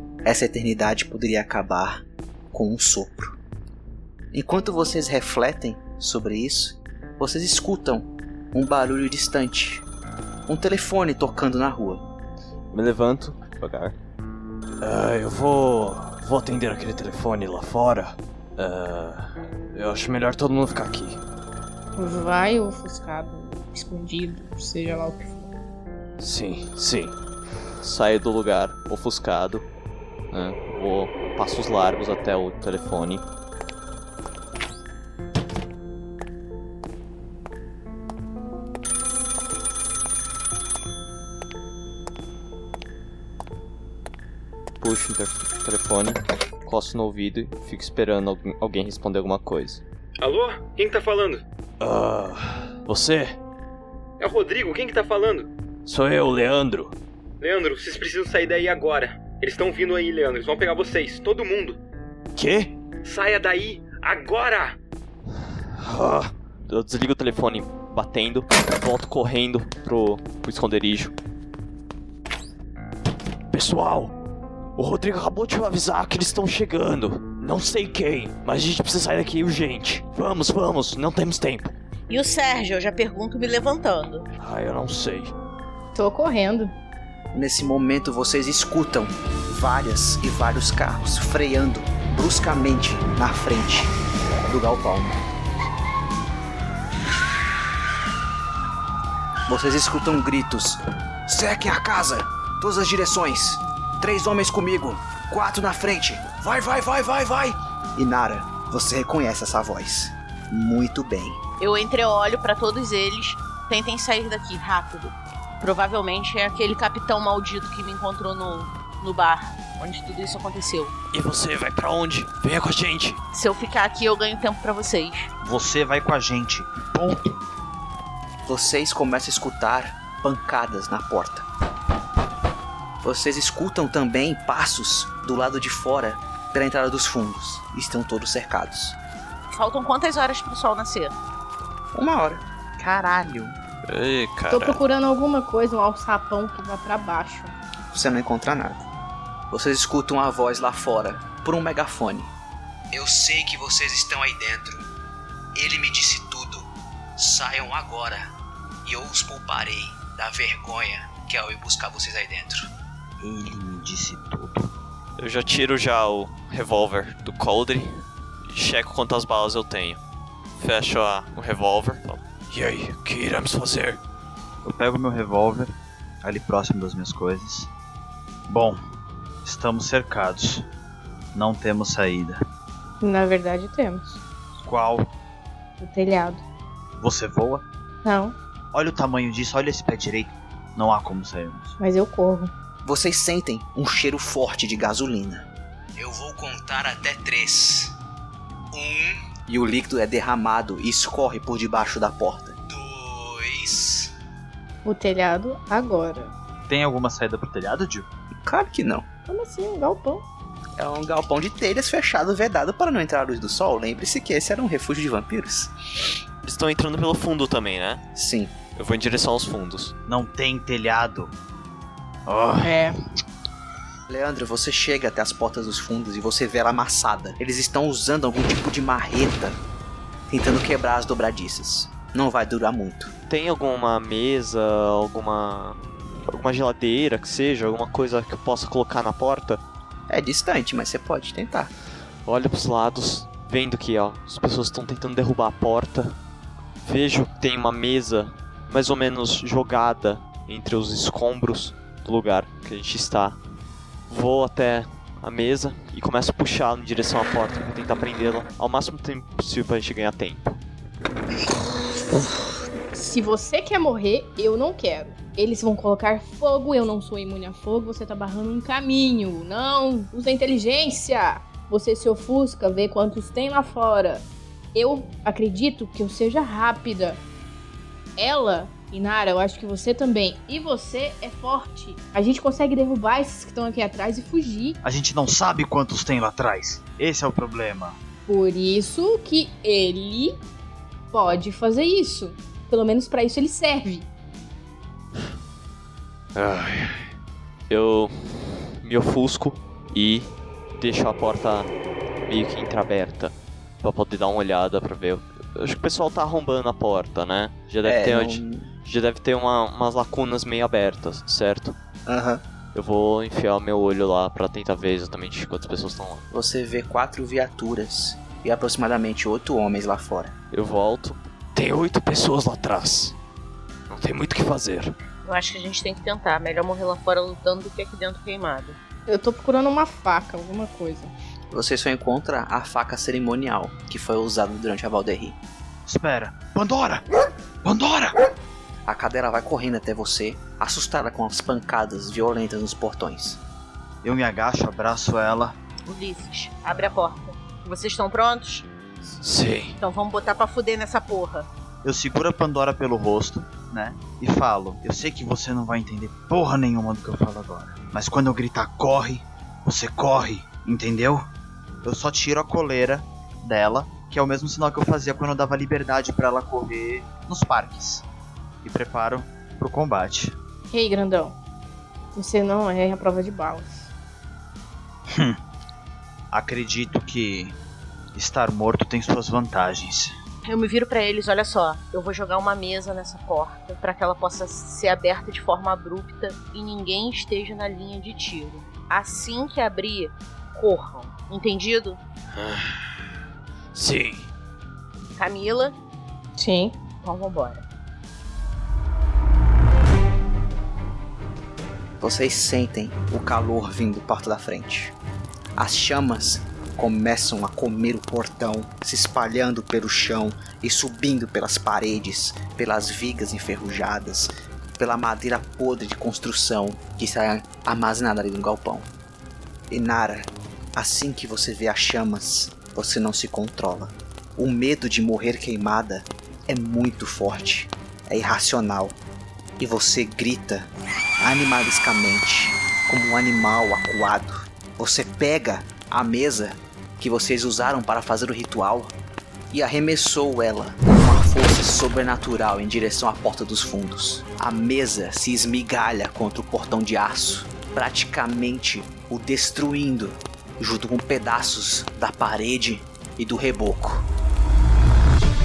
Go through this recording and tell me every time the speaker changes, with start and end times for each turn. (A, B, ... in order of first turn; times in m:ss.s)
0:00.2-0:03.4 A
0:04.3-0:09.8 A
0:10.5-0:12.1 A
0:12.7-0:14.0 B
0:14.8-0:21.2 B
0:22.0-0:25.5 C
0:26.2-0:27.2 B
0:27.8-0:29.6 B
0:30.3-0:33.2 B
0:44.8-0:49.8 B
0:50.2-0:51.4 D
0:51.8-0:53.4 B
0:54.2-0:55.5 D
0:55.9-0:57.0 B
0:57.4-1:01.8 D
1:02.4-1:02.7 B
1:03.0-1:04.8 D
1:05.8-1:11.2 B
1:13.5-1:14.1 B
1:14.8-1:21.7 B
1:22.1-1:24.3 E
1:24.4-1:25.3 B
1:26.0-1:26.7 C
1:27.3-1:33.9 A
1:34.5-1:35.2 A
1:39.5-1:51.4 A
1:51.6-2:00.9 E
2:01.1-2:03.2 B
2:03.3-2:05.3 E
2:05.4-2:07.3 F
2:08.4-2:11.5 A
2:13.0-2:19.0 A
2:19.5-2:21.2 E
2:21.9-2:22.4 A
2:22.8-2:23.6 E
2:23.9-2:24.8 B
2:24.5-2:27.5 C
2:27.9-2:28.9 A
2:29.5-2:32.3 A
2:32.9-2:34.9 A
2:35.6-2:38.3 A
2:38.8-2:42.7 A
2:43.2-2:44.7 F
2:45.2-2:50.0 B
2:50.6-2:54.0 B
2:54.6-2:55.7 F
2:56.2-2:57.7 F
2:58.5-2:58.8 F
2:59.4-3:00.7 F
3:01.3-3:02.4 F
3:03.0-3:04.2 C
3:04.6-3:05.1 F
3:05.8-3:06.4 C
3:07.0-3:07.6 F
3:08.0-3:08.4 C
3:08.7-3:11.8 F
3:11.8-3:12.5 C
3:12.8-3:18.0 A
3:18.7-3:24.1 A
3:24.8-3:26.3 C
3:26.7-3:28.1 F
3:28.4-3:29.1 A
3:29.3-3:30.3 C
3:30.8-3:35.7 A
3:36.4-3:38.0 B
3:38.2-3:38.5 A
3:38.8-3:39.9 B
3:40.1-3:41.3 F
3:42.3-3:42.9 F
3:44.1-3:49.6 A
3:50.3-3:53.1 A
3:53.3-3:59.6 B
4:00.1-4:01.7 A
4:02.3-4:06.2 B
4:06.8-4:13.4 B
4:14.1-4:20.5 B
4:22.9-4:37.2 C
4:38.2-4:44.8 C
4:44.8-4:48.0 F
4:48.3-4:50.4 C
4:51.1-4:54.1 C
4:56.4-4:57.1 B
4:57.7-5:01.7 B
5:02.3-5:11.8 B
5:07.8-5:08.7 A
5:12.1-5:12.4 A
5:12.7-5:16.3 B
5:16.3-5:20.4 A
5:20.5-5:23.2 B
5:23.9-5:24.9 B
5:25.2-5:28.8 E
5:29.1-5:31.1 C
5:31.5-5:35.4 A
5:35.9-5:38.2 F
5:38.9-5:43.4 A
5:44.0-5:45.6 F
5:45.9-5:48.7 E
5:49.1-5:49.8 B
5:49.8-5:51.5 E
5:51.8-6:01.3 F
6:01.8-6:08.0 F
6:08.6-6:10.4 F
6:10.7-6:11.4 C
6:12.2-6:13.9 C
6:15.1-6:15.4 F
6:16.3-6:17.6 F
6:18.2-6:20.1 F
6:20.4-6:32.0 E
6:32.4-6:32.8 B
6:33.7-6:34.3 B
6:35.2-6:35.8 E
6:36.4-6:36.8 C
6:37.0-6:37.6 E
6:42.0-6:44.9 A
6:45.6-6:58.9 A
6:59.7-7:09.0 A
7:09.6-7:19.0 A
7:19.5-7:34.1 A